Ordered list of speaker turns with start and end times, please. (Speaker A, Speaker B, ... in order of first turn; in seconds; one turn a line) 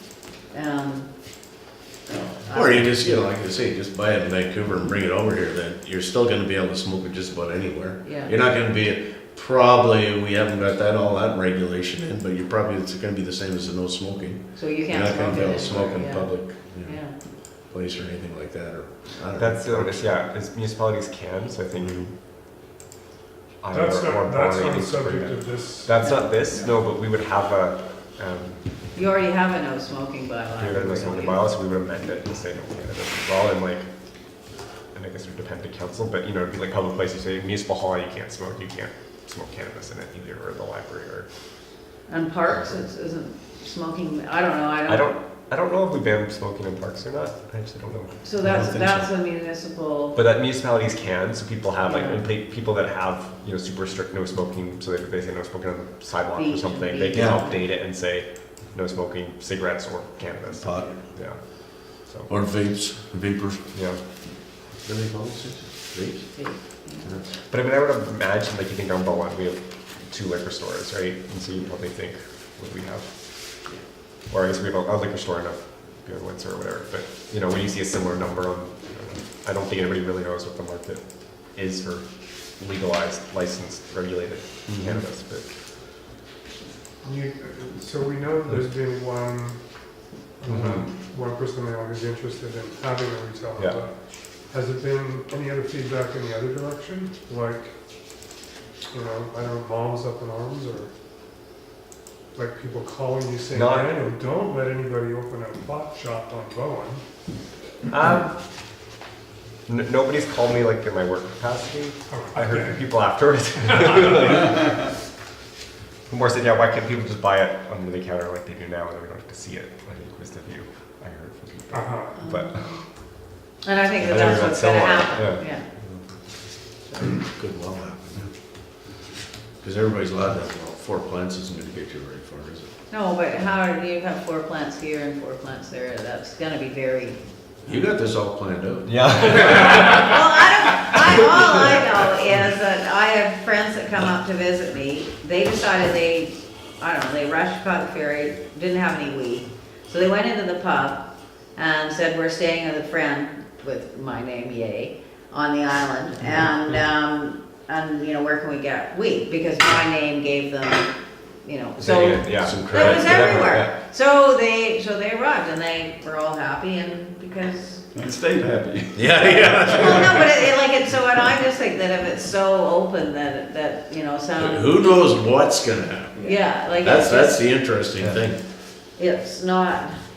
Speaker A: 0.5-1.1
Speaker A: 2.4-2.9
Speaker B: 2.5-20.1
Speaker A: 8.0-8.3
Speaker A: 14.5-17.1
Speaker C: 19.4-22.1
Speaker B: 21.8-22.1
Speaker C: 23.6-28.6
Speaker D: 23.7-26.2
Speaker A: 26.0-26.7
Speaker A: 28.9-31.4
Speaker C: 30.6-33.9
Speaker C: 34.9-41.3
Speaker A: 42.1-45.1
Speaker C: 44.9-49.0
Speaker A: 48.2-50.2
Speaker E: 48.5-48.9
Speaker C: 50.1-62.3
Speaker A: 51.9-52.2
Speaker A: 56.3-57.6
Speaker E: 57.1-57.4
Speaker B: 60.6-61.0
Speaker B: 62.3-63.8
Speaker C: 63.7-64.0
Speaker B: 64.8-67.2
Speaker A: 66.3-67.2
Speaker C: 67.4-85.5
Speaker B: 84.7-85.0
Speaker D: 87.0-97.7
Speaker C: 90.5-90.9
Speaker D: 98.9-100.9
Speaker D: 102.3-107.0
Speaker C: 103.5-104.0
Speaker C: 107.9-108.4
Speaker C: 109.7-115.0
Speaker D: 112.1-112.8
Speaker D: 113.8-114.2
Speaker C: 116.1-122.8
Speaker D: 121.7-122.1
Speaker A: 122.2-122.8
Speaker A: 123.6-125.6
Speaker C: 124.0-126.0
Speaker B: 127.0-128.3
Speaker B: 129.6-132.7
Speaker A: 132.9-137.2
Speaker B: 137.6-139.8
Speaker C: 138.8-140.1
Speaker A: 139.4-160.9
Speaker A: 161.4-167.8
Speaker C: 161.8-163.7
Speaker B: 162.3-163.4
Speaker E: 167.9-169.7
Speaker B: 168.9-170.2
Speaker A: 169.6-174.7
Speaker B: 174.4-178.4
Speaker A: 176.2-177.4
Speaker A: 178.9-180.0